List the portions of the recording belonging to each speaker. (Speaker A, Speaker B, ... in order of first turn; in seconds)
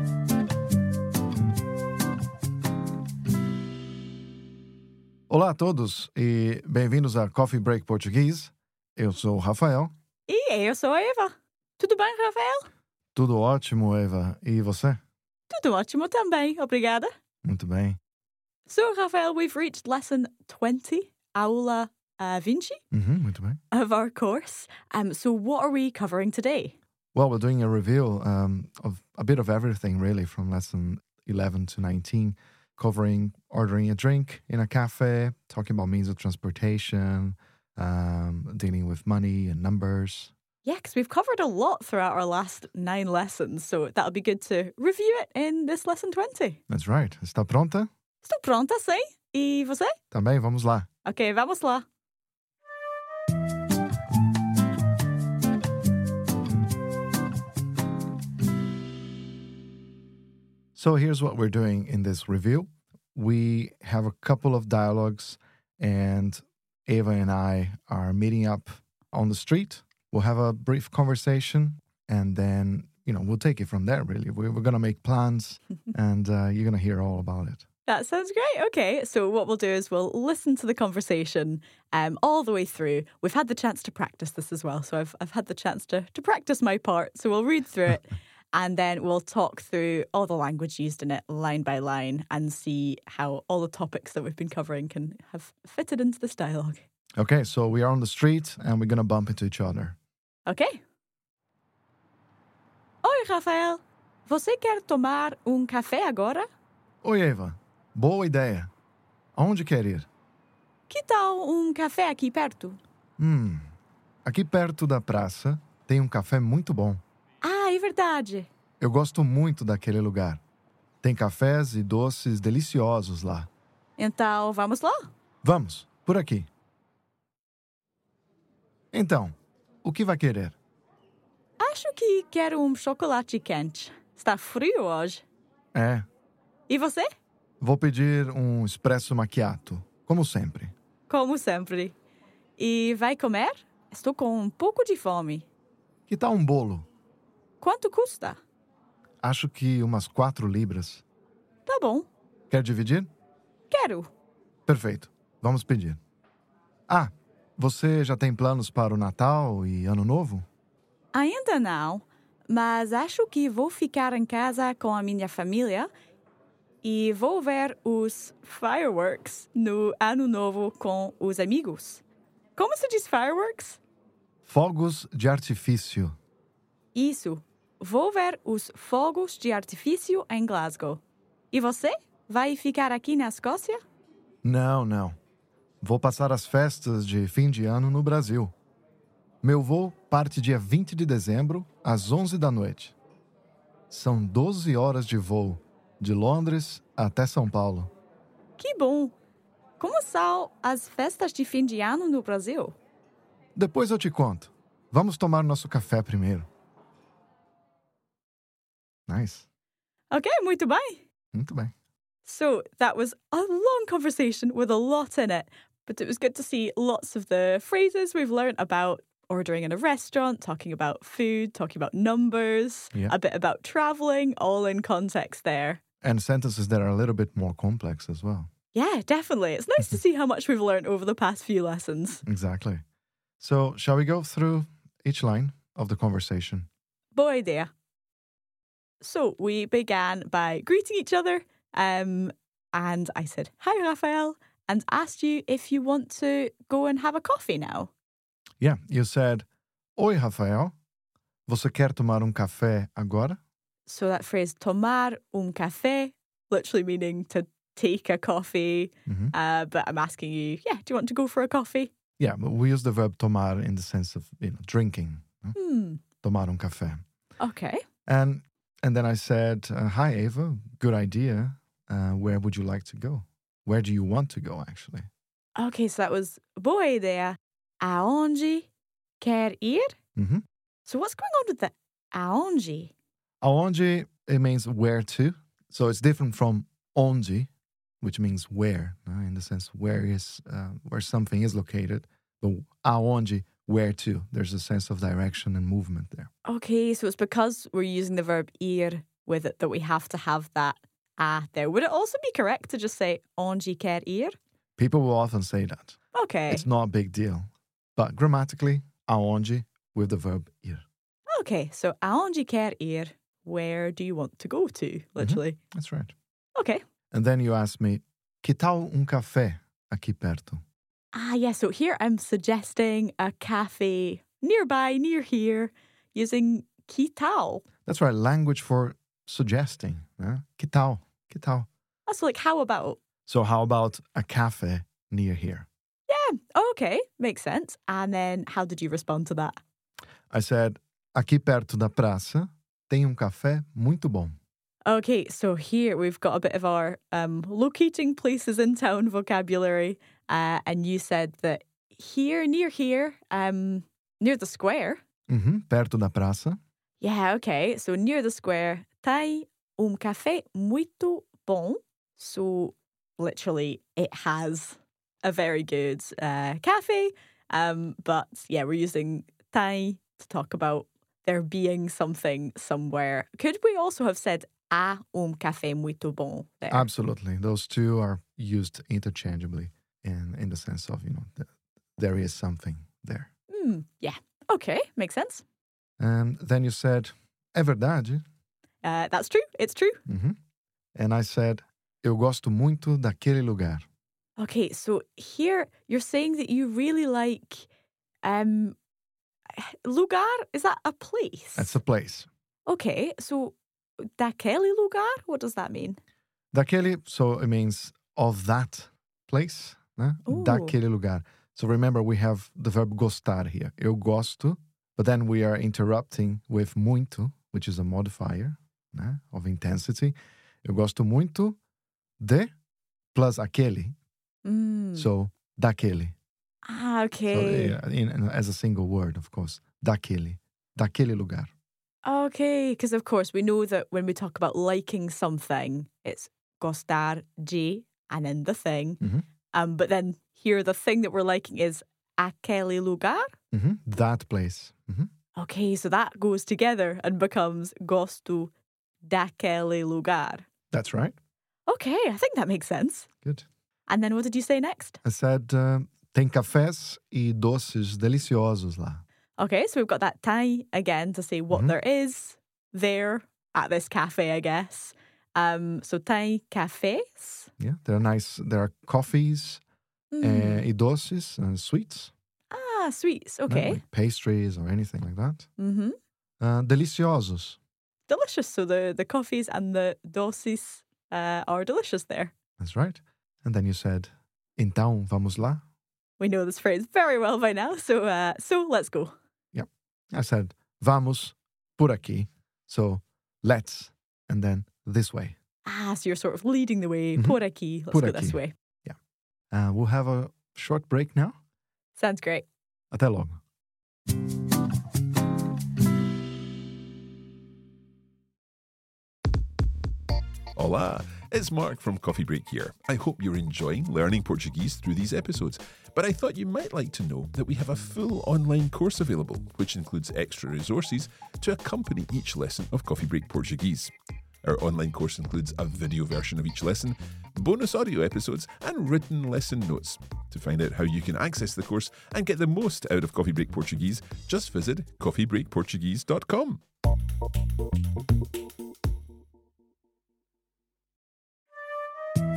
Speaker A: 5.3-9.9, 13.2-15.0, 17.4-18.0, 22.9-23.6, 27.1-40.3, 46.7-47.9, 50.1-50.9, 60.8-77.7, 97.2-100.0, 107.0-108.7, 109.4-110.1, 113.2-113.7, 114.2-117.0, 118.8-120.4, 121.0-123.5, 125.4-126.5, 128.9-130.6, 135.7-136.1, 137.6-140.7, 146.1-146.9, 149.2-151.0, 152.5-153.1, 154.7-156.0, 156.9-160.4, 174.4-176.2, 184.4-185.2, 185.8-188.5, 189.4-192.9, 193.9-197.9, 203.6-206.5, 209.1-209.5, 211.3-211.7, 226.0-228.5, 232.2-232.8, 233.4-236.7, 248.6-250.7, 251.5-253.4, 259.1-259.3, 262.2-265.6, 266.2-267.1, 268.1-275.1, 280.2-280.4, 283.4-287.5, 288.0-296.3, 304.8-306.0, 306.5-310.8, 315.2-316.1, 317.1-320.6, 327.9-331.7, 333.3-335.7, 340.3-344.3, 355.3-356.6, 376.7-383.3, 386.0-388.2, 390.1-390.4, 391.0-393.9, 401.6-402.3, 406.5-421.6, 422.2-422.5, 423.1-423.9, 424.9-426.1, 427.3-431.5, 443.5-445.1, 450.7-451.2, 455.0-459.0, 467.6-469.6, 470.2-472.1, 473.5-475.5, 476.4-477.6, 482.6-485.6, 489.5-495.4, 497.9-499.0, 499.5-501.4, 502.9-503.4
Speaker B: 10.3-12.7, 15.5-17.1, 18.7-22.8, 23.7-26.8, 40.6-46.6, 48.2-50.0, 51.0-51.9, 77.9-96.8, 100.5-100.8, 103.0-106.5, 110.9-112.8, 117.4-118.5, 124.0-125.1, 131.6-135.2, 136.7-137.1, 141.1-141.9, 142.6-145.5, 147.6-148.4, 151.7-152.1, 153.7-154.1, 161.1-165.9, 166.8-172.0, 172.6-173.8, 176.9-181.0, 181.5-183.8, 198.6-199.2, 199.8-202.8, 210.1-211.0, 212.2-225.8, 228.7-232.2, 237.2-237.7, 239.0-247.9, 253.9-261.9, 265.6-266.0, 267.4-267.8, 275.6-278.7, 279.2-280.0, 280.9-282.9, 296.5-304.4, 306.1-306.6, 311.3-315.6, 316.6-316.8, 321.1-327.6, 332.1-333.0, 336.1-339.6, 344.9-355.0, 357.0-376.9, 383.5-385.4, 388.8-390.0, 394.4-397.7, 398.2-398.8, 399.5-401.8, 402.7-406.0, 410.3-410.7, 424.4-425.1, 426.6-427.8, 432.1-439.0, 439.5-443.3, 445.4-448.5, 449.1-450.4, 451.7-453.1, 453.9-455.0, 459.4-467.5, 470.1-470.6, 472.5-473.8, 475.6-476.0, 478.1-482.3, 486.2-489.1, 495.7-498.5, 502.0-502.5
Speaker C: 510.6-536.6